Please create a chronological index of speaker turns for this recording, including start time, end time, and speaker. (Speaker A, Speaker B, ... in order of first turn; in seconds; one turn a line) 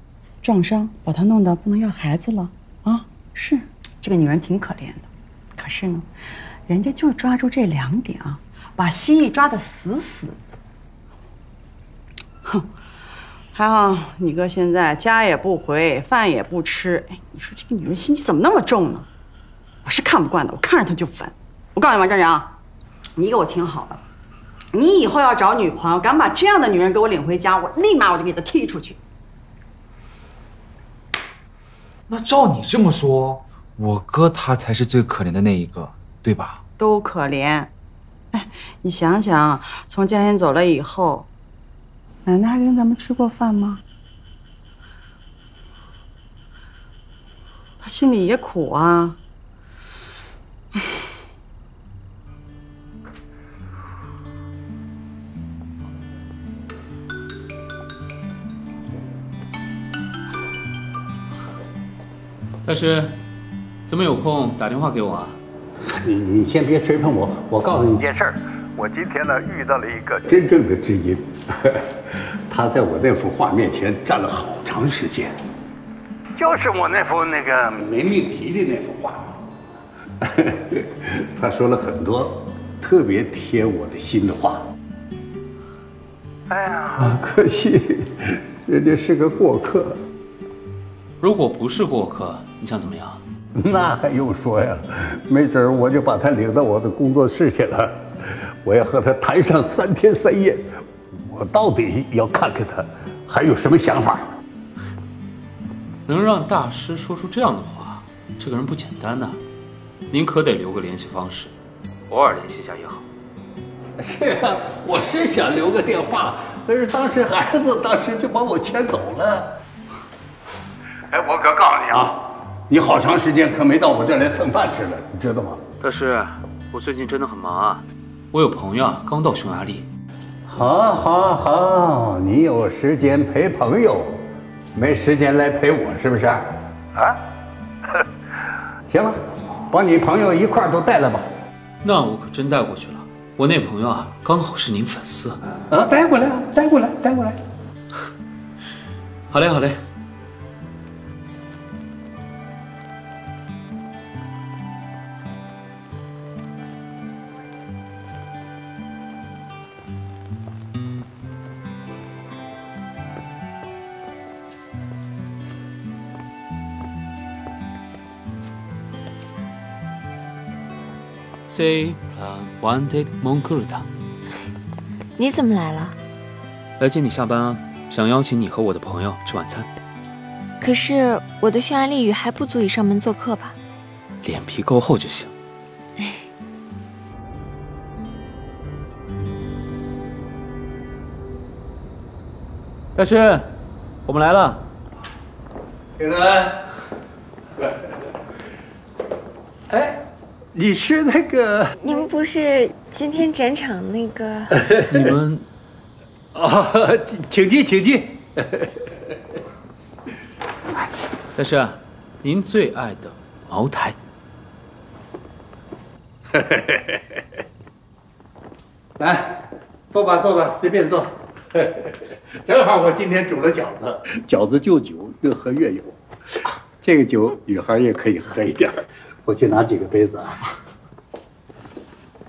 Speaker A: 0.4-6.1
Speaker A: 6.7-10.4
Speaker A: 13.5-19.1
Speaker A: 19.9-22.5
Speaker A: 23.2-24.0
Speaker A: 24.7-29.0
Speaker B: 32.1-36.6
Speaker A: 36.8-37.7
Speaker A: 38.3-41.3
Speaker A: 42.2-43.8
Speaker A: 47.8-49.2
Speaker C: 62.6-63.1
Speaker C: 63.9-65.4
Speaker D: 65.9-75.4
Speaker D: 76.4-79.4
Speaker D: 80.2-84.7
Speaker D: 86.5-90.0
Speaker C: 91.2-93.2
Speaker D: 93.6-104.3
Speaker C: 106.1-109.4
Speaker C: 110.1-111.5
Speaker C: 112.1-113.0
Speaker D: 114.0-119.5
Speaker D: 121.1-125.6
Speaker C: 125.8-129.9
Speaker D: 130.5-134.2
Speaker D: 134.7-137.2
Speaker D: 138.9-141.3
Speaker C: 141.8-145.4
Speaker D: 145.7-147.4
Speaker C: 149.3-149.8
Speaker C: 171.5-173.9
Speaker E: 175.2-176.0
Speaker C: 176.8-179.7
Speaker E: 180.6-183.6
Speaker C: 184.2-185.3
Speaker C: 193.0-193.5
Speaker C: 194.1-194.6
Speaker D: 196.0-196.7
Speaker D: 199.7-201.7
Speaker E: 201.8-204.6
Speaker C: 204.9-205.5
Speaker D: 206.3-208.7
Speaker C: 211.4-214.0
Speaker D: 216.3-217.0
Speaker D: 219.0-226.0
Speaker D: 226.8-230.4